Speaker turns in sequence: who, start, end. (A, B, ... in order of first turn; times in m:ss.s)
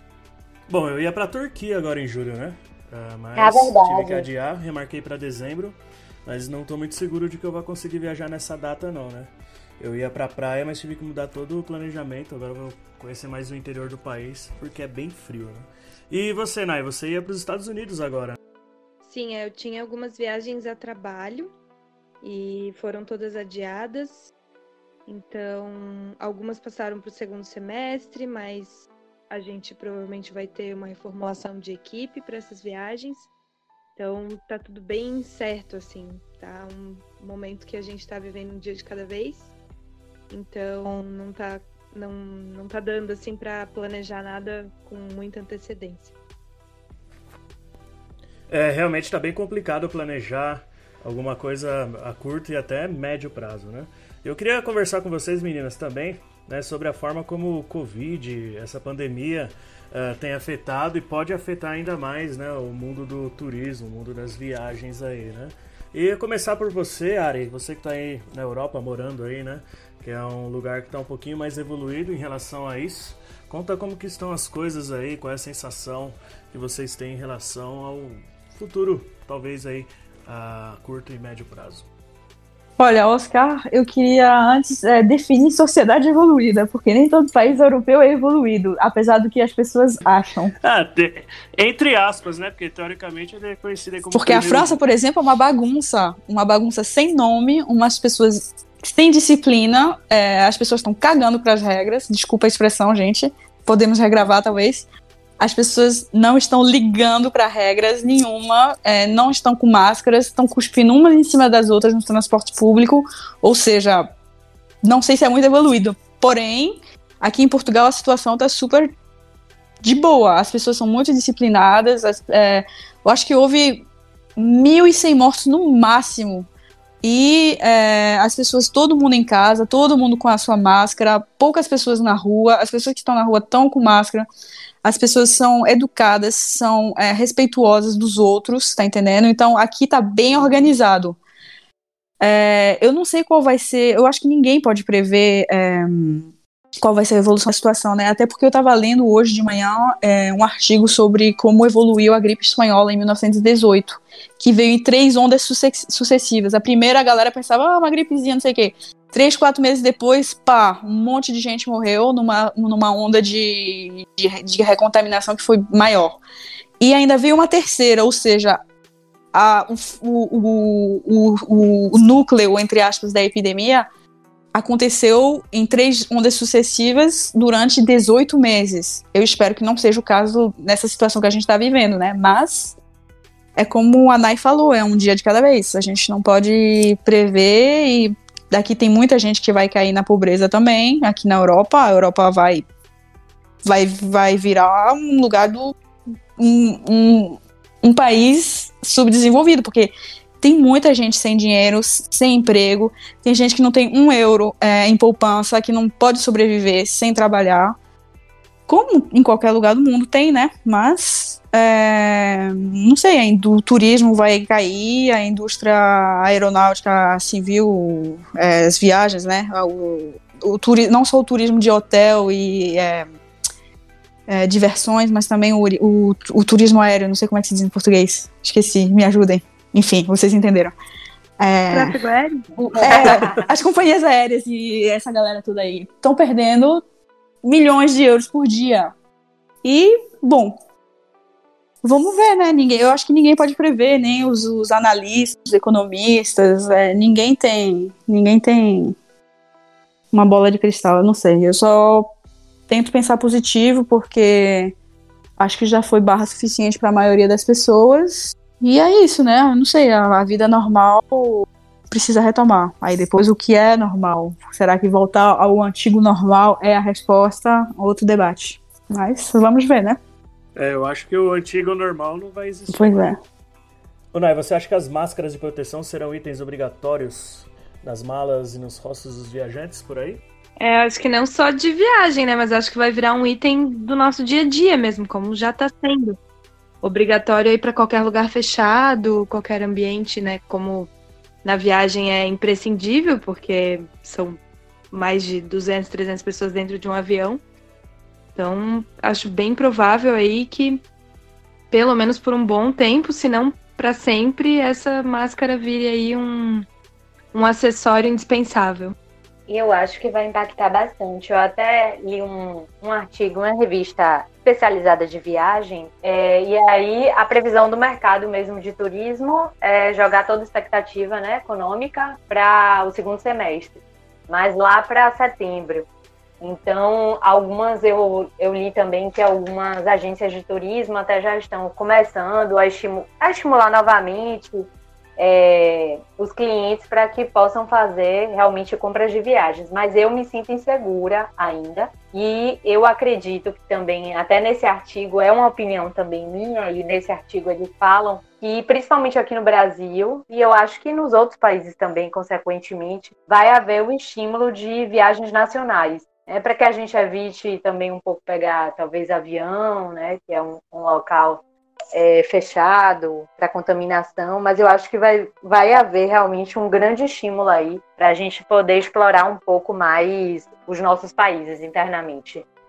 0:00.7-0:18.4 A
0:03.4-0:04.3 B
0:19.1-0:21.5 C
0:22.2-0:24.3 C
0:25.1-0:33.3 C
0:34.0-0:39.5 C
0:40.3-0:46.1 C
0:48.5-1:21.9 A
1:22.8-1:30.5 D
1:30.6-1:34.8 A
1:34.1-1:44.9 D
1:45.4-1:54.1 D
1:54.8-1:58.9 D
1:59.8-2:06.5 D
2:07.0-2:14.3 D
2:14.8-2:21.2 D
2:22.2-2:26.3 D
2:26.8-2:46.2 D
2:46.8-2:48.6 D
2:49.3-2:53.8 D
2:54.5-3:02.8 D
3:03.6-3:12.6 D
3:13.6-3:15.7 D
3:16.4-3:27.7 D
3:28.7-3:43.1 D
3:44.3-3:50.7 D
3:51.4-3:52.0 D
3:51.7-3:52.4 C
3:52.6-3:53.3 B
3:52.8-3:56.8 D
3:57.4-3:58.9 D
3:59.6-4:00.6 D
4:01.8-4:09.0 D
4:10.1-4:12.1 D
4:12.7-4:14.7 D
4:15.4-4:30.0 D
4:30.6-4:33.0 A
4:32.7-4:33.2 D
4:34.1-4:40.2 A
4:40.6-4:46.2 C
4:46.8-4:50.9 C
4:51.4-4:54.4 C
4:54.9-4:57.4 C
4:58.4-5:00.8 C
5:01.7-5:06.6 C
5:07.3-5:09.0 C
5:09.5-5:25.9 B
5:26.4-6:01.4 B
6:01.9-6:12.4 B